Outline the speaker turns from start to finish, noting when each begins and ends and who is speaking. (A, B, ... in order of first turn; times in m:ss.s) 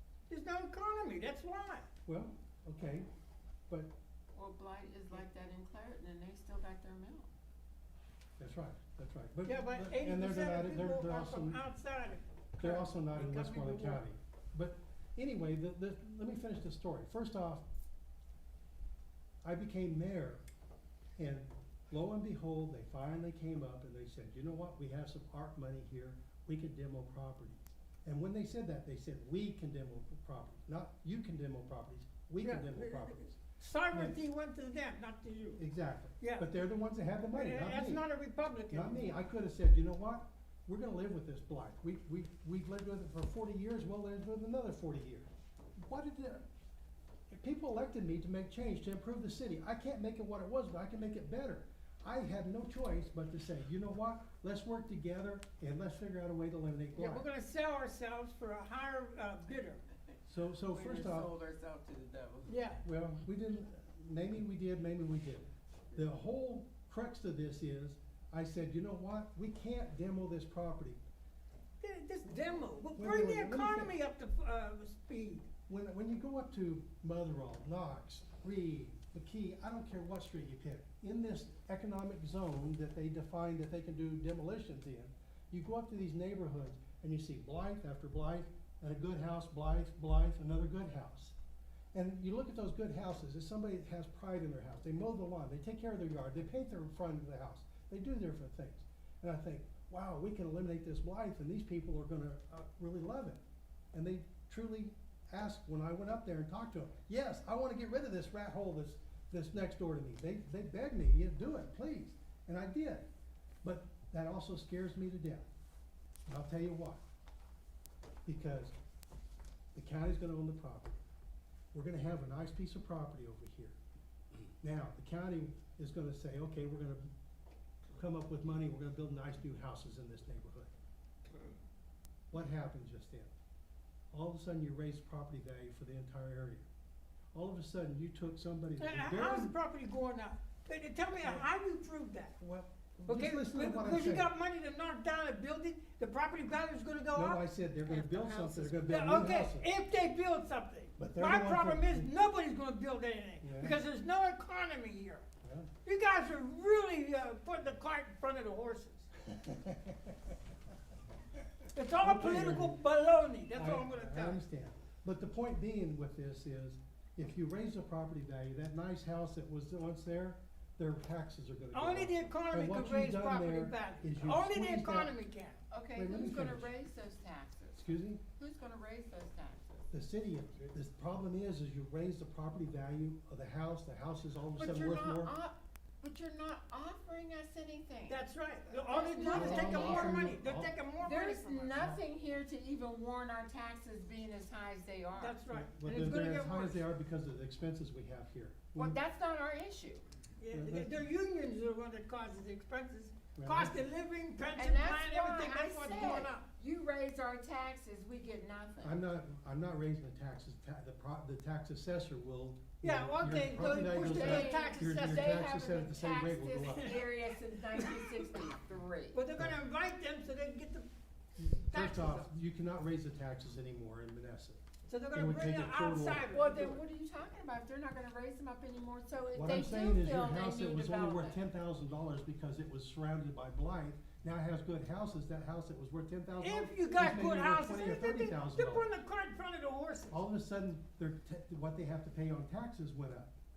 0:00.3-0:01.9 A
0:02.0-0:03.1 B
0:04.3-0:07.3 C
0:08.4-0:11.6 B
0:09.4-0:14.0 A
0:12.6-0:17.6 B
0:19.4-0:20.4 B
0:21.2-0:33.4 B
0:32.4-0:35.6 A
0:35.6-0:38.0 B
0:36.2-0:36.4 A
0:37.3-0:39.1 A
0:38.7-0:46.4 B
0:47.3-0:57.3 B
0:56.9-0:59.8 A
1:00.3-1:01.3 B
1:00.7-1:02.5 C
1:02.5-1:02.8 A
1:02.8-1:11.0 B
1:11.8-1:15.5 A
1:13.0-1:13.9 B
1:15.7-1:31.4 B
1:31.9-1:43.4 B
1:43.9-1:53.0 B
1:53.6-1:55.5 B
1:56.2-1:57.0 B
1:58.2-1:58.7 B
1:59.7-2:01.0 B
2:01.7-2:03.8 B
2:04.6-2:07.1 B
2:07.9-2:10.7 B
2:12.3-2:13.3 B
2:14.1-2:16.6 B
2:17.3-2:19.5 B
2:18.8-2:22.3 A
2:21.2-2:21.5 B
2:22.4-2:24.3 B
2:23.1-2:35.2 A
2:27.1-2:29.7 B
2:31.0-2:32.1 B
2:33.4-2:33.8 B
2:35.4-2:35.7 B
2:35.8-2:39.1 A
2:39.2-2:40.2 B
2:41.7-2:44.4 A
2:42.0-2:42.8 B
2:43.5-2:55.1 B
2:51.7-2:55.6 A
2:55.7-2:59.9 C
2:55.9-2:56.7 B
2:57.7-2:58.2 B
2:59.9-3:05.3 B
3:04.6-3:05.0 A
3:04.6-3:10.3 C
3:08.1-3:11.9 A
3:09.2-3:10.7 B
3:11.0-3:15.4 C
3:15.2-3:16.8 A
3:15.5-3:19.0 B
3:18.7-3:20.0 C
3:20.4-3:26.5 A
3:20.5-3:20.9 B
3:23.3-3:23.8 B
3:24.5-3:29.0 C
3:28.8-3:37.0 B
3:32.8-3:35.4 A
3:33.6-3:39.2 C
3:36.7-3:38.4 A
3:39.1-3:40.9 A
3:41.4-3:44.6 B
3:41.6-3:42.3 A
3:44.8-3:46.8 A
3:45.1-3:46.2 B
3:46.3-3:51.4 C
3:49.3-3:58.9 B
3:56.4-4:00.2 A
4:00.1-4:03.3 B